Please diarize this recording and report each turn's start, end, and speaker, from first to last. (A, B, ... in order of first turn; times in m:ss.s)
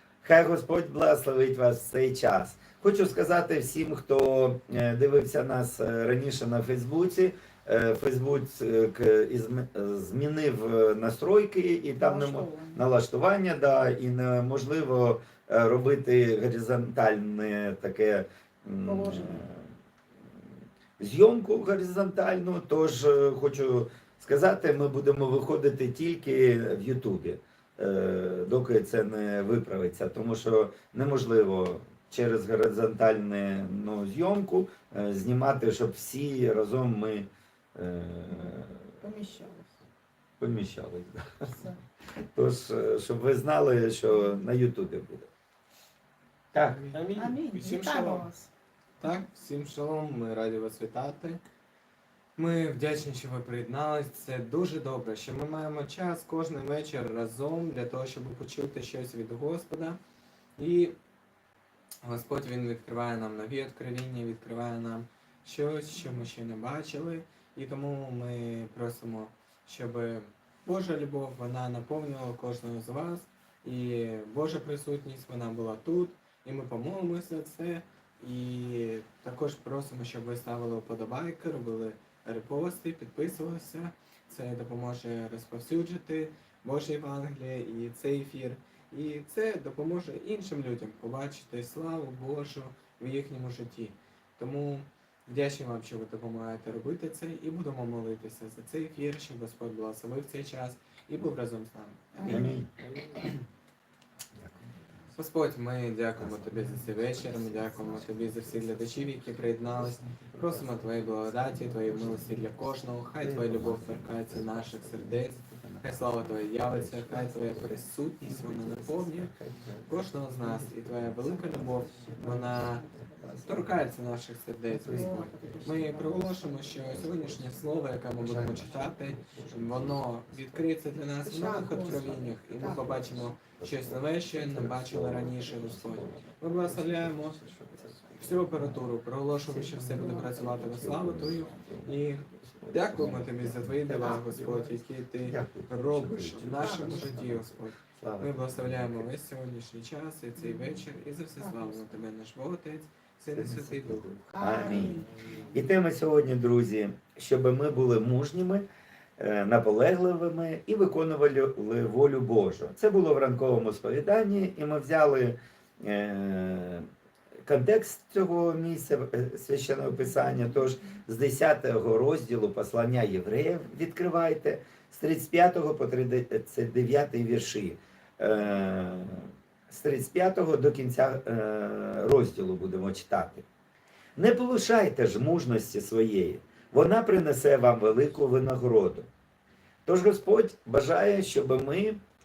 0:00.2-0:19.7 A
0:12.0-0:12.8 B
0:18.8-0:19.4 B
0:21.0-0:38.9 A
0:39.0-0:39.8 B
0:40.4-0:41.6 A
0:42.3-0:45.3 A
0:46.5-0:46.8 A
0:46.6-0:48.3 C
0:47.1-0:48.5 B
0:49.0-0:51.4 C
0:52.4-1:00.0 C
1:00.6-1:01.0 C
1:02.0-1:43.4 C
1:42.2-1:42.5 B
1:42.2-1:42.7 A
1:45.2-2:02.9 C
2:03.4-2:17.5 C
2:05.0-2:05.4 B
2:11.2-2:12.8 B
2:18.2-2:35.1 C
2:25.2-2:27.4 A
2:26.6-2:27.1 B
2:27.9-2:29.0 A
2:30.4-2:30.8 B
2:33.4-2:38.6 A
2:34.3-2:35.1 B
2:39.2-2:46.9 A
2:47.5-3:03.5 A
3:04.2-3:09.1 A
3:09.9-3:12.0 A